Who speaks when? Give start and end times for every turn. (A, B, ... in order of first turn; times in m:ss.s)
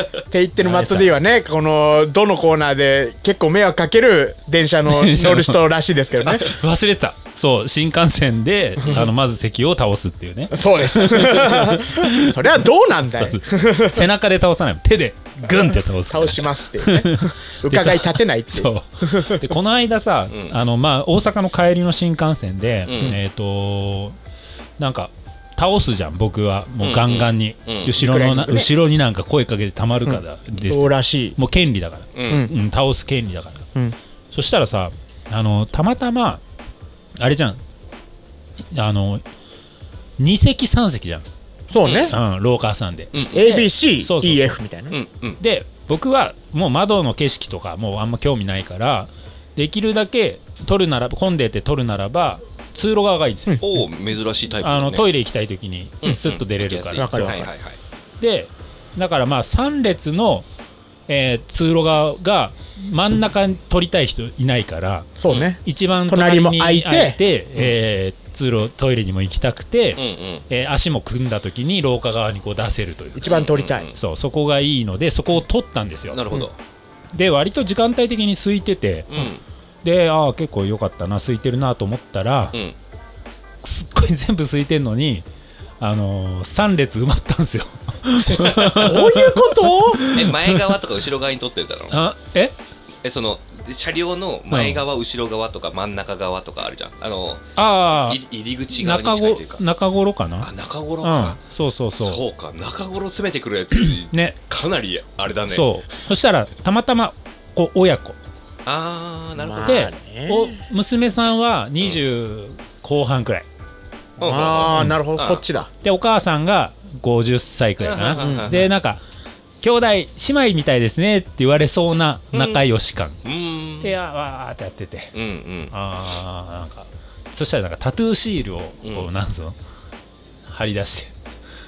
0:00.3-0:06.5 A
0:00.6-0:01.1 B
0:04.9-0:05.6 B
0:06.2-0:24.2 B
0:08.8-0:09.1 A
0:10.5-0:14.0 A
0:16.1-0:19.5 A
0:20.3-0:20.6 C
0:22.8-0:23.2 C
0:24.8-0:33.6 B
0:26.8-0:28.0 C
0:27.9-0:28.7 A
0:30.0-0:31.4 A
0:32.1-0:32.5 C
0:32.3-0:32.5 A
0:34.3-0:36.4 B
0:37.2-0:37.6 B
0:38.7-0:39.2 B
0:40.2-0:41.2 B
0:41.7-0:42.2 A
0:41.8-0:42.2 C
0:42.1-0:44.6 B
0:43.1-0:43.5 C
0:43.1-0:45.0 A
0:44.9-0:45.4 C
0:45.4-0:53.6 B
0:53.6-0:55.1 C
0:54.6-0:57.4 B
0:56.0-0:57.8 C
0:57.0-0:57.5 A
0:58.2-1:00.4 B
1:01.1-1:05.1 B
1:05.2-1:07.7 A
1:05.6-1:13.3 B
1:10.0-1:10.4 C
1:13.1-1:13.9 A
1:13.2-1:13.9 C
1:13.9-1:16.2 B
1:16.1-1:16.6 C
1:17.1-1:19.1 B
1:19.1-1:19.4 C
1:19.8-1:22.6 B
1:23.6-1:25.2 B
1:25.8-1:30.3 B
1:28.6-1:30.0 A
1:30.0-1:32.0 C
1:31.9-1:32.5 B
1:33.0-1:39.6 C
1:34.5-1:34.8 B
1:37.6-1:40.5 B
1:40.4-1:41.4 C
1:41.0-1:42.2 B
1:42.0-1:45.7 C
1:43.7-1:44.4 B
1:45.5-1:48.2 B
1:48.6-1:49.8 C
1:49.4-1:50.6 A
1:49.6-1:53.5 B
1:54.2-1:55.4 C
1:54.2-1:55.7 A
1:55.8-1:59.0 B
1:57.8-1:58.7 C
1:58.2-1:58.6 A
1:59.6-2:03.2 B
2:02.3-2:02.6 C
2:03.2-2:04.0 C
2:03.8-2:05.1 B
2:05.1-2:05.7 C
2:05.7-2:09.6 B
2:08.8-2:09.1 C
2:10.4-2:11.1 B